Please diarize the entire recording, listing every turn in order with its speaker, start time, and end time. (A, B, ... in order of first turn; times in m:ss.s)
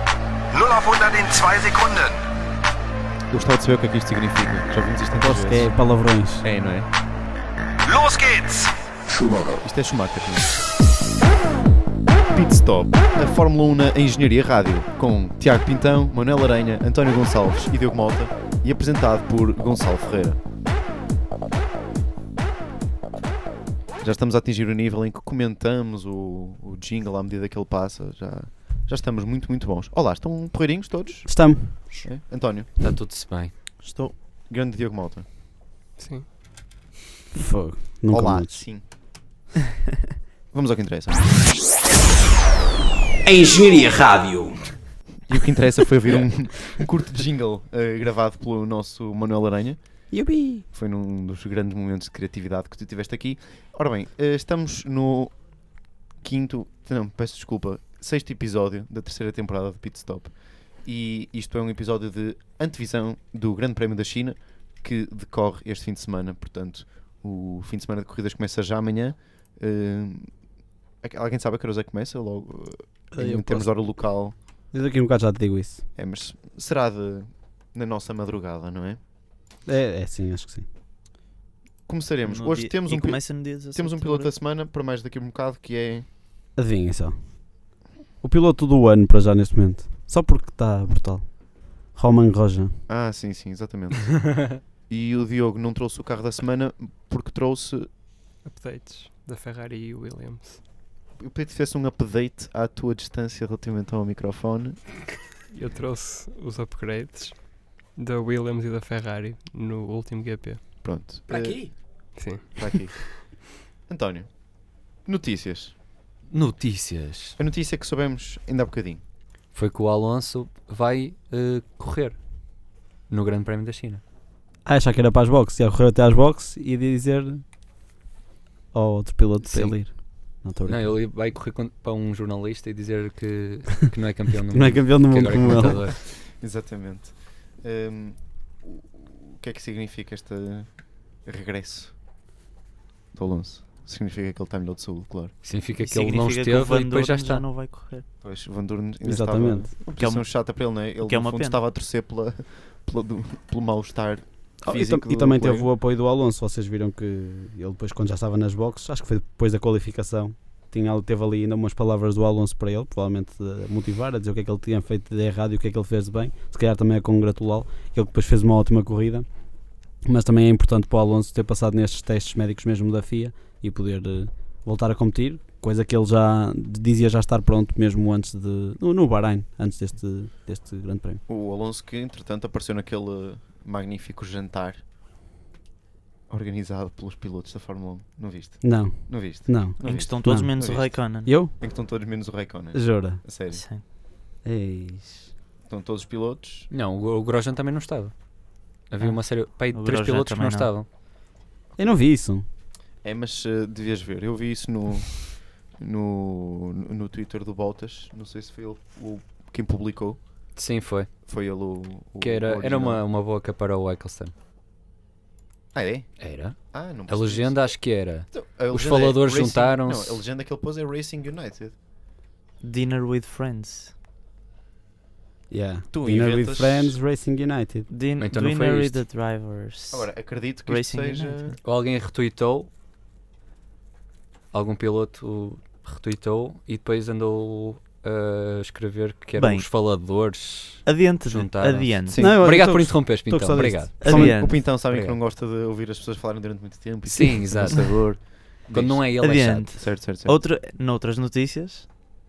0:00.5-0:02.2 A
0:03.3-0:05.7 B
0:05.2-0:06.4 C
0:06.4-0:06.9 B
0:07.9-0:08.7 A
0:09.6-0:10.5 B
0:12.3-0:20.4 B
0:24.0-0:32.7 B
0:31.3-0:32.1 C
0:32.8-0:33.6 D
0:33.8-0:34.2 E
0:34.5-0:35.3 B
0:36.0-0:36.3 F
0:37.3-0:38.6 C
0:38.1-0:38.9 B
0:40.5-0:41.3 B
0:43.2-0:44.8 C
0:45.3-0:50.1 B
0:50.1-0:50.7 C
0:50.7-1:10.3 B
1:11.0-1:14.4 B
1:13.1-1:13.8 C
1:14.7-1:15.9 C
1:16.0-1:19.0 B
1:19.7-1:20.7 C
1:21.9-1:26.1 B
1:22.3-1:24.3 E
1:26.6-1:27.4 C
1:28.2-1:32.8 C
1:32.9-1:37.9 B
1:38.4-1:40.6 F
1:41.2-1:45.0 B
1:45.5-1:50.8 F
1:50.8-1:53.0 B
1:52.1-1:53.2 F
1:53.9-1:55.8 B
1:56.3-1:57.4 D
1:57.4-1:59.0 B
1:59.5-2:02.2 D
2:03.1-2:04.0 D
2:04.6-2:07.4 C
2:08.7-2:11.0 C
2:09.4-2:10.0 D
2:10.6-2:16.0 D
2:14.5-2:15.9 C
2:15.9-2:21.9 B
2:23.1-2:25.4 B
2:25.4-2:27.4 D
2:25.8-2:28.0 E
2:28.2-2:35.7 B
2:29.0-2:29.7 C
2:30.0-2:30.2 E
2:31.0-2:31.6 E
2:34.6-2:49.3 C
2:50.0-3:01.2 C
3:01.3-3:04.8 B
3:06.3-3:11.0 B
3:08.6-3:10.5 C
3:09.8-3:11.3 E
3:11.2-3:11.5 C
3:11.6-3:13.6 B
3:12.7-3:13.2 C
3:13.5-3:13.8 E
3:14.4-3:15.3 C
3:15.6-3:16.7 B
3:16.7-3:18.2 D
3:18.9-3:20.9 D
3:19.0-3:20.7 E
3:21.8-3:22.4 C
3:23.0-3:30.2 B
3:30.6-3:31.1 D
3:31.3-3:33.0 B
3:32.2-3:34.3 D
3:35.7-3:41.8 B
3:36.2-3:40.2 D
3:42.6-3:43.9 E
3:45.5-3:47.9 C
3:45.9-3:46.4 E
3:46.0-3:47.0 B
3:47.9-3:50.1 E
3:48.2-3:49.0 D
3:49.9-3:51.6 B
3:50.7-3:51.4 E
3:51.6-3:52.7 D
3:54.5-4:04.1 D
3:59.4-3:59.7 E
4:00.9-4:02.2 E
4:02.1-4:02.5 B
4:02.2-4:04.4 C
4:04.0-4:04.6 E
4:04.1-4:10.4 B
4:04.9-4:05.2 D
4:07.1-4:09.7 D
4:09.2-4:11.9 E